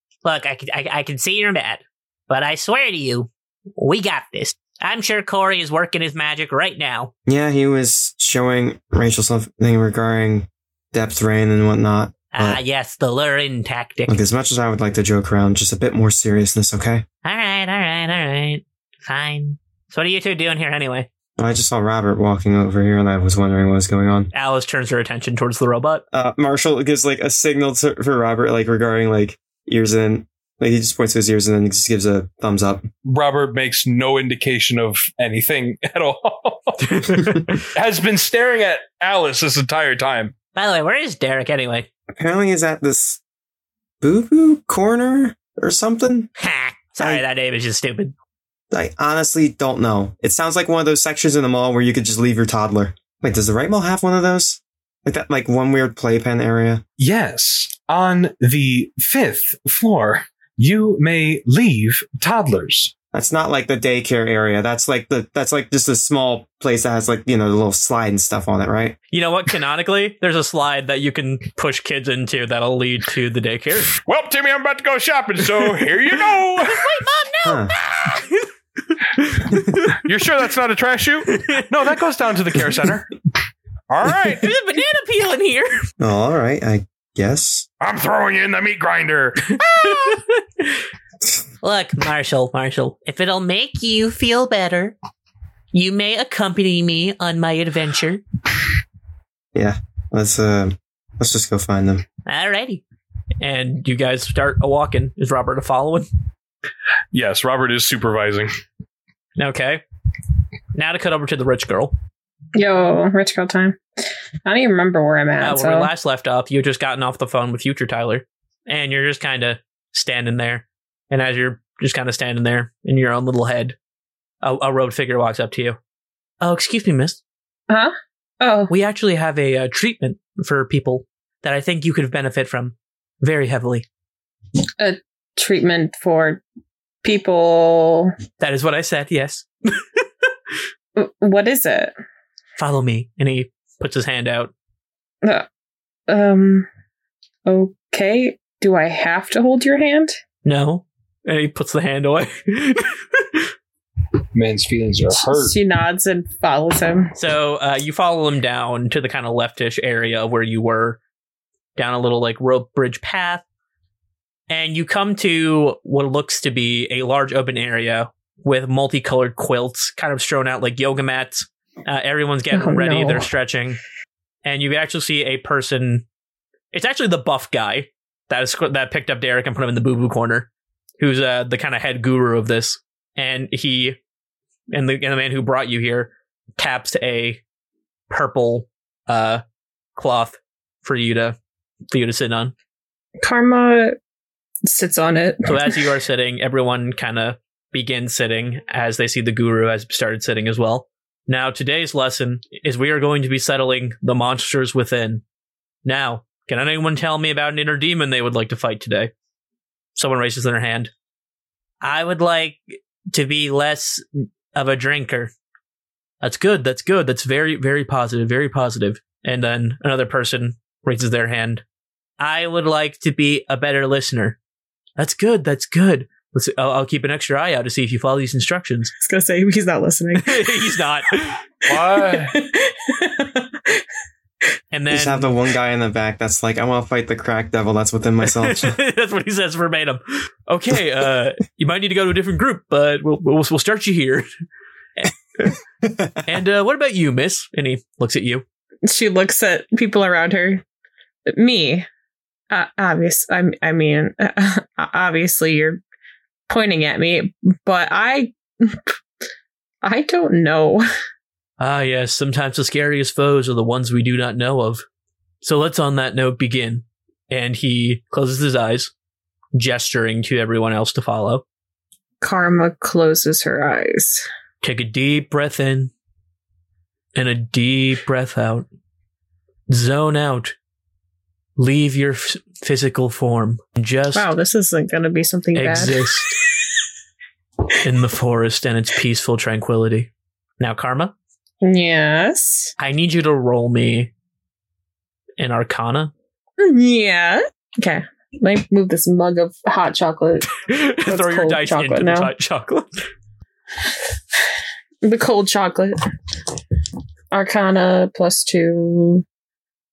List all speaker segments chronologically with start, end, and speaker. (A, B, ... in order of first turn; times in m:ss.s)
0:00.2-0:07.1 A
0:07.3-0:12.6 B
0:12.3-0:14.2 A
0:14.1-0:17.1 B
0:17.2-0:21.1 A
0:21.4-0:24.3 B
0:24.3-0:26.0 C
0:26.1-0:32.9 B
0:33.0-0:36.8 D
0:36.8-0:37.6 C
0:37.7-0:40.3 D
0:40.5-0:41.9 A
0:42.1-0:43.2 B
0:44.0-0:46.3 B
0:46.4-0:48.1 A
0:48.7-0:56.8 B
0:57.0-1:02.9 D
1:03.1-1:09.0 B
1:09.1-1:14.0 C
1:14.0-1:16.9 D
1:16.9-1:18.2 A
1:17.4-1:17.7 B
1:19.2-1:19.6 C
1:19.9-1:23.1 D
1:23.9-1:24.5 D
1:24.7-1:25.7 A
1:26.0-1:27.7 B
1:27.8-1:29.5 D
1:29.8-1:30.2 C
1:31.6-1:35.0 A
1:35.7-1:38.2 A
1:39.6-1:42.0 B
1:42.3-1:42.8 A
1:43.4-1:46.1 C
1:47.1-1:48.5 D
1:49.4-1:49.8 C
1:50.7-1:51.9 C
1:52.6-1:53.8 E
1:54.5-1:55.9 E
1:55.4-2:03.8 C
2:04.4-2:05.8 C
2:06.4-2:07.2 C
2:07.7-2:08.7 E
2:08.7-2:13.9 C
2:14.8-2:16.4 E
2:17.0-2:18.2 E
2:18.4-2:20.0 C
2:21.0-2:21.9 E
2:22.6-2:24.5 C
2:26.1-2:26.7 E
2:27.5-2:30.2 E
2:30.4-2:33.5 C
2:34.3-2:35.6 D
2:35.1-2:37.2 E
2:37.2-2:41.0 C
2:41.8-2:43.4 C
2:44.5-2:53.8 C
2:52.5-2:53.3 E
2:54.4-2:56.0 C
2:56.7-3:04.0 C
3:04.7-3:07.4 C
3:08.1-3:09.4 C
3:10.0-3:11.4 C
3:11.9-3:12.5 C
3:13.2-3:14.0 E
3:14.6-3:15.9 E
3:15.5-3:25.2 C
3:25.8-3:29.1 C
3:30.0-3:30.9 C
3:31.8-3:32.6 A
3:33.1-3:34.0 A
3:34.5-3:35.3 C
3:36.2-3:41.6 C
3:42.2-3:43.3 A
3:42.7-3:44.4 C
3:45.0-3:48.9 C
3:49.0-3:50.7 E
3:50.2-3:51.4 C
3:51.7-3:52.3 D
3:51.7-3:53.8 E
3:54.7-3:55.3 C
3:54.9-3:58.8 B
3:58.2-4:04.3 C
4:05.0-4:05.5 C
4:06.3-4:08.4 C
4:08.8-4:10.6 E
4:11.3-4:11.9 E
4:12.5-4:15.8 E
4:16.5-4:18.9 E
4:19.8-4:20.8 E
4:21.6-4:24.8 C
4:25.4-4:28.9 C
4:29.5-4:31.4 C
4:32.2-4:34.3 E
4:34.6-4:35.9 C
4:37.2-4:38.7 C
4:39.7-4:40.5 C
4:41.6-4:44.3 C
4:44.2-4:46.4 E
4:45.6-4:46.4 C
4:47.8-4:51.1 C
4:51.6-4:52.7 E
4:52.8-4:54.1 C
4:55.4-4:56.1 C
4:56.6-5:00.5 E
5:00.5-5:03.0 C
5:01.1-5:02.3 E
5:05.0-5:06.0 E
5:07.3-5:09.2 E